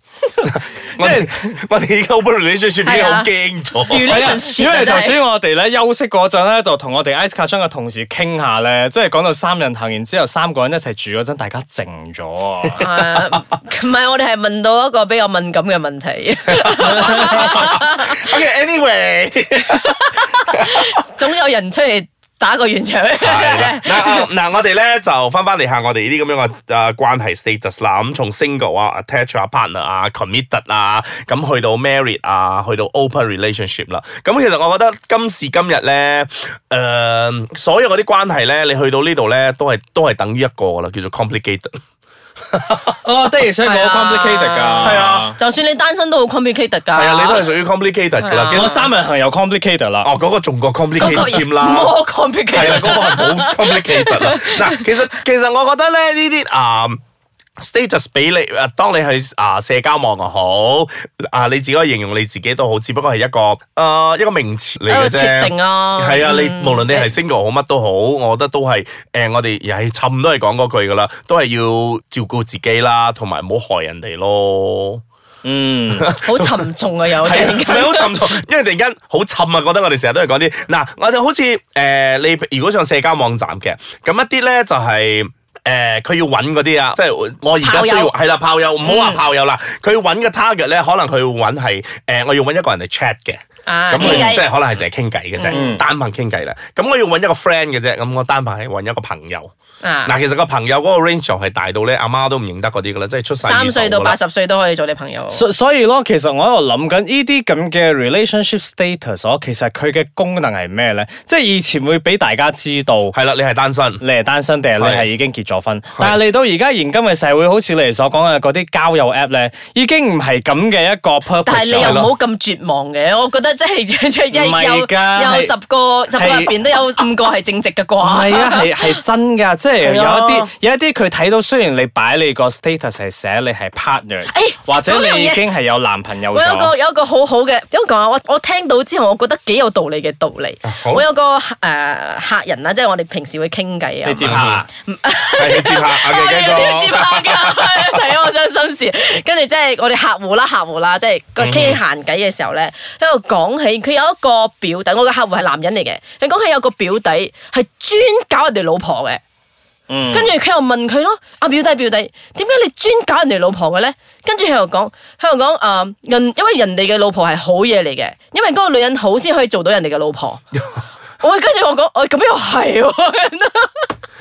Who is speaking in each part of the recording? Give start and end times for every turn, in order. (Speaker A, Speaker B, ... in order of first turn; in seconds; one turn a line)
Speaker A: 0.4-1.3
Speaker B: 0.5-4.2
Speaker C: 2.8-3.3
Speaker C: 3.9-5.2
Speaker A: 4.0-12.8
Speaker C: 12.8-18.2
Speaker B: 16.6-19.9
Speaker A: 16.9-17.5
Speaker C: 19.8-24.3
Speaker B: 23.2-41.8
Speaker A: 43.0-45.4
Speaker C: 43.6-47.5
Speaker B: 44.8-45.3
Speaker B: 46.9-48.9
Speaker C: 48.2-48.9
Speaker A: 48.5-50.1
Speaker B: 50.0-52.0
Speaker C: 51.0-54.9
Speaker B: 52.5-57.0
Speaker A: 52.6-52.9
Speaker B: 57.6-75.0
Speaker C: 64.9-67.1
Speaker A: 75.4-76.1
Speaker B: 76.0-76.6
Speaker C: 76.2-78.2
Speaker B: 77.2-99.5
Speaker C: 87.6-88.1
Speaker C: 88.8-89.2
Speaker C: 93.7-94.5
Speaker A: 94.0-94.4
Speaker C: 95.4-95.7
Speaker A: 95.5-95.8
Speaker C: 99.8-100.1
Speaker B: 100.0-104.2
Speaker C: 103.4-105.4
Speaker A: 105.3-113.2
Speaker B: 113.1-114.0
Speaker A: 114.0-122.0
Speaker B: 114.8-115.1
Speaker C: 121.5-128.8
Speaker B: 121.8-122.2
Speaker A: 124.3-125.5
Speaker A: 126.1-126.5
Speaker A: 128.0-136.7
Speaker B: 129.8-130.5
Speaker C: 134.3-135.4
Speaker C: 136.3-159.2
Speaker B: 140.6-141.1
Speaker A: 144.0-144.7
Speaker B: 144.2-144.6
Speaker B: 145.3-148.0
Speaker B: 151.4-151.8
Speaker A: 159.9-160.3
Speaker C: 160.1-170.4
Speaker C: 171.2-173.9